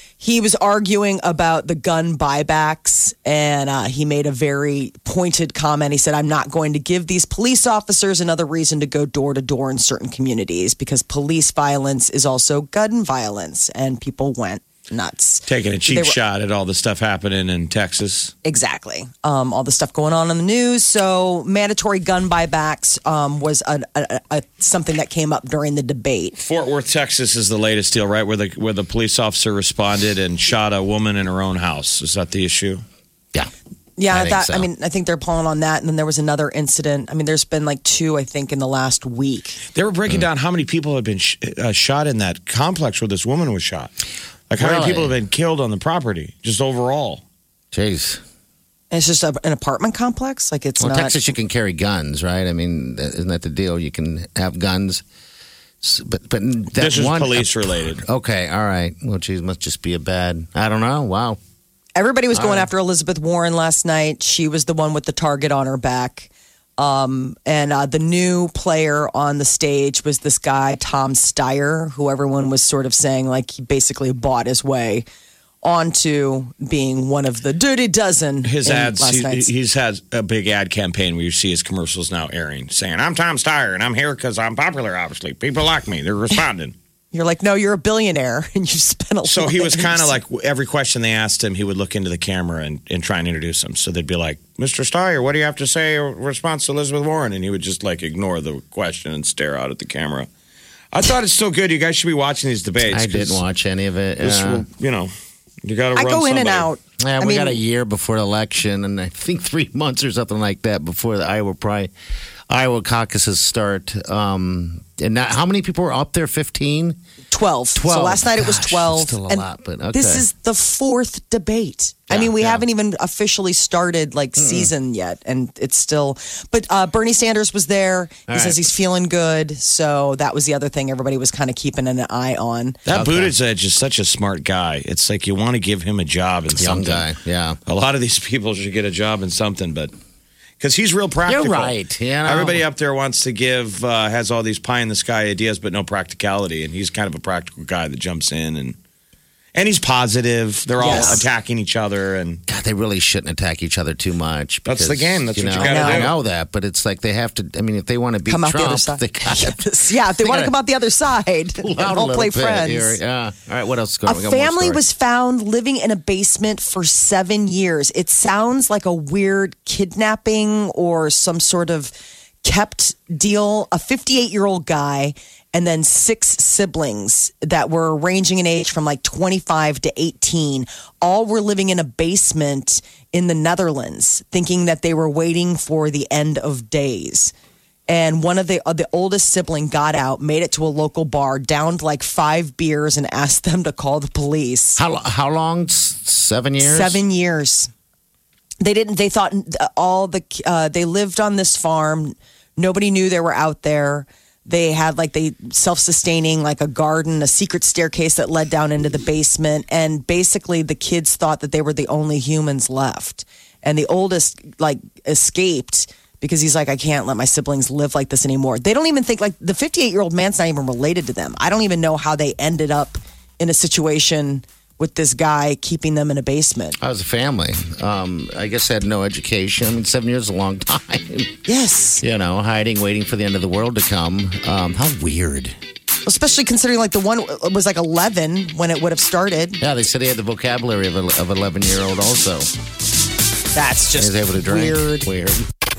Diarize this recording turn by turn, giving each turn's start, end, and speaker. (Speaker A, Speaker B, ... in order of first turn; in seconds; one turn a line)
Speaker A: 0.2-16.2
Speaker B: 15.4-18.3
Speaker A: 18.4-26.4
Speaker B: 26.4-32.8
Speaker A: 34.0-39.6
Speaker C: 34.1-34.7
Speaker B: 39.7-43.9
Speaker B: 44.5-47.2
Speaker C: 44.6-45.1
Speaker C: 47.7-48.2
Speaker A: 48.9-51.2
Speaker C: 50.8-55.0
Speaker C: 55.8-61.4
Speaker B: 56.8-58.0
Speaker A: 62.0-75.0
Speaker C: 62.3-62.7
Speaker A: 75.6-79.5
Speaker B: 78.4-86.7
Speaker A: 87.1-90.2
Speaker B: 89.2-100.3
Speaker B: 100.9-103.4
Speaker C: 102.9-104.6
Speaker B: 104.2-105.1
Speaker B: 105.6-106.7
Speaker A: 105.9-107.6
Speaker C: 107.0-111.9
Speaker C: 112.5-117.0
Speaker A: 117.3-132.8
Speaker C: 117.7-120.2
Speaker C: 122.1-122.6
Speaker C: 124.4-124.7
Speaker C: 128.3-128.7
Speaker B: 132.8-137.1
Speaker C: 132.9-133.3
Speaker C: 136.6-137.6
Speaker B: 137.7-139.9
Speaker B: 140.6-148.8
Speaker C: 141.3-142.6
Speaker B: 149.5-152.4
Speaker A: 150.8-151.3
Speaker C: 150.8-151.2
Speaker C: 152.5-159.6
Speaker B: 154.6-156.2
Speaker A: 155.6-156.1
Speaker A: 158.3-163.0
Speaker C: 160.2-160.5
Speaker C: 161.6-164.8
Speaker A: 164.0-187.3
Speaker A: 187.9-194.8
Speaker C: 194.8-197.0
Speaker A: 196.6-197.7
Speaker A: 198.6-226.8
Speaker C: 226.8-231.3
Speaker A: 231.4-232.0
Speaker C: 232.0-235.5
Speaker A: 236.0-239.6
Speaker C: 239.6-242.5
Speaker A: 243.5-245.1
Speaker C: 244.0-245.5